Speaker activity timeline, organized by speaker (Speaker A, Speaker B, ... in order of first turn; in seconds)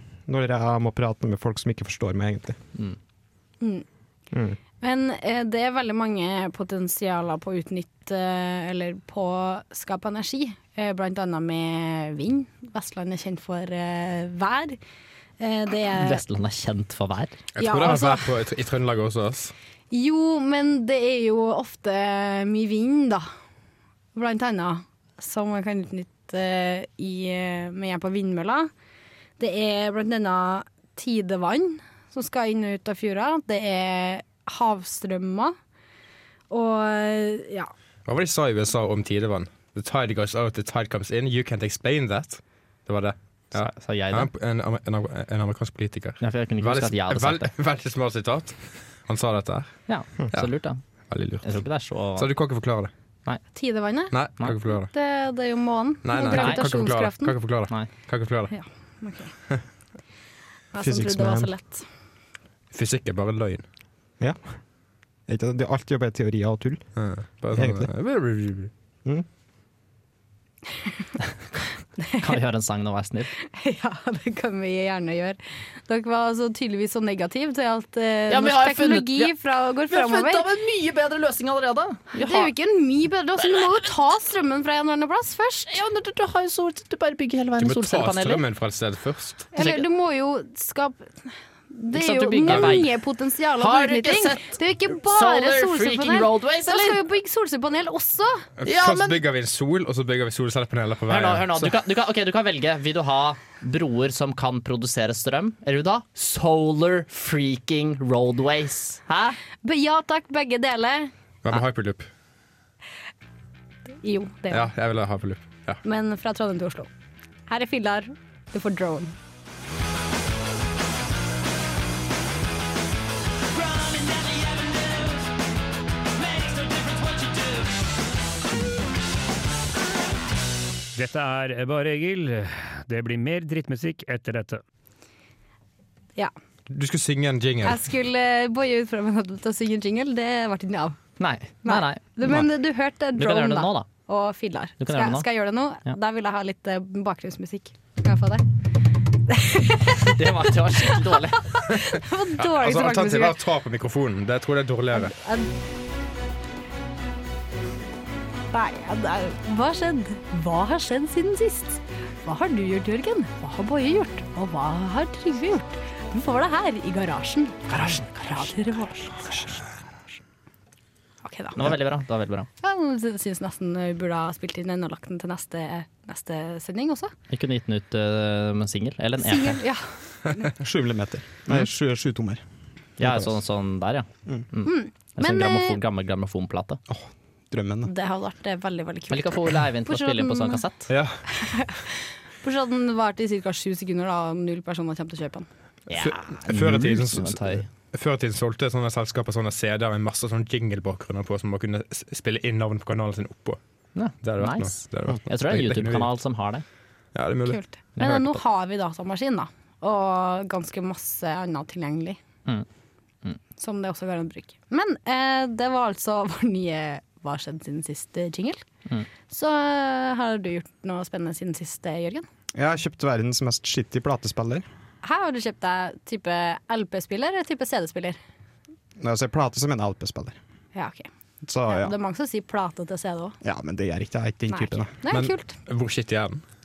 Speaker A: 0.3-2.6, 4.3-4.6, 60.8-61.5, 64.2-64.6, 65.3-66.9, 67.5-67.9, 180.6-182.4, 183.0-183.3, 186.9-187.9, 222.5-224.7, 229.0-230.4, 231.4-231.9, 233.4-234.9
Speaker B: 4.8-14.8, 15.4-16.2, 17.6-18.3, 19.9-23.2, 24.1-28.7, 29.4-35.5, 36.5-37.7, 53.5-54.1, 54.8-57.3, 58.5-59.3, 60.7-61.8, 73.4-80.5, 82.1-85.8, 89.5-98.5, 109.6-111.1, 114.0-114.7, 115.8-116.9, 117.5-119.2, 137.6-141.0, 141.6-148.4, 149.3-153.4, 154.9-155.5, 158.5-167.7, 168.3-169.8, 171.2-171.7, 172.6-177.1, 179.2-180.5, 184.6-185.8, 187.8-190.6, 191.3-195.5, 207.5-212.2, 213.6-218.6, 219.3-222.3, 225.0-228.2, 230.8-231.1, 231.7-233.4, 234.5-235.5
Speaker C: 15.9-17.4, 43.5-44.3, 46.2-47.5, 49.9-50.8, 51.4-52.3, 56.3-56.9, 72.1-73.3, 78.3-79.3, 79.9-82.5, 85.7-88.4, 89.5-89.9, 91.9-92.9, 93.6-97.0, 98.6-99.2, 101.1-109.4, 141.2-142.4, 143.2-143.9, 144.8-145.3, 150.0-151.5, 167.7-168.7, 171.6-172.5, 177.3-179.6, 183.0-186.8, 189.1-190.9, 195.9-197.7, 203.9-206.6, 208.0-208.4
Speaker D: 17.6-19.5, 38.1-49.8, 51.1-51.5, 52.2-52.9, 54.1-54.9, 56.0-58.5, 62.7-63.6, 67.0-68.7, 87.6-89.5, 92.5-92.8, 98.6-101.8, 111.4-112.1, 114.5-115.8, 136.7-137.8, 152.4-155.2, 190.9-191.2, 195.9-203.6, 204.2-206.1, 207.1-207.6, 235.1-236.4
Speaker E: 123.5-125.3, 126.2-127.8, 130.9-134.6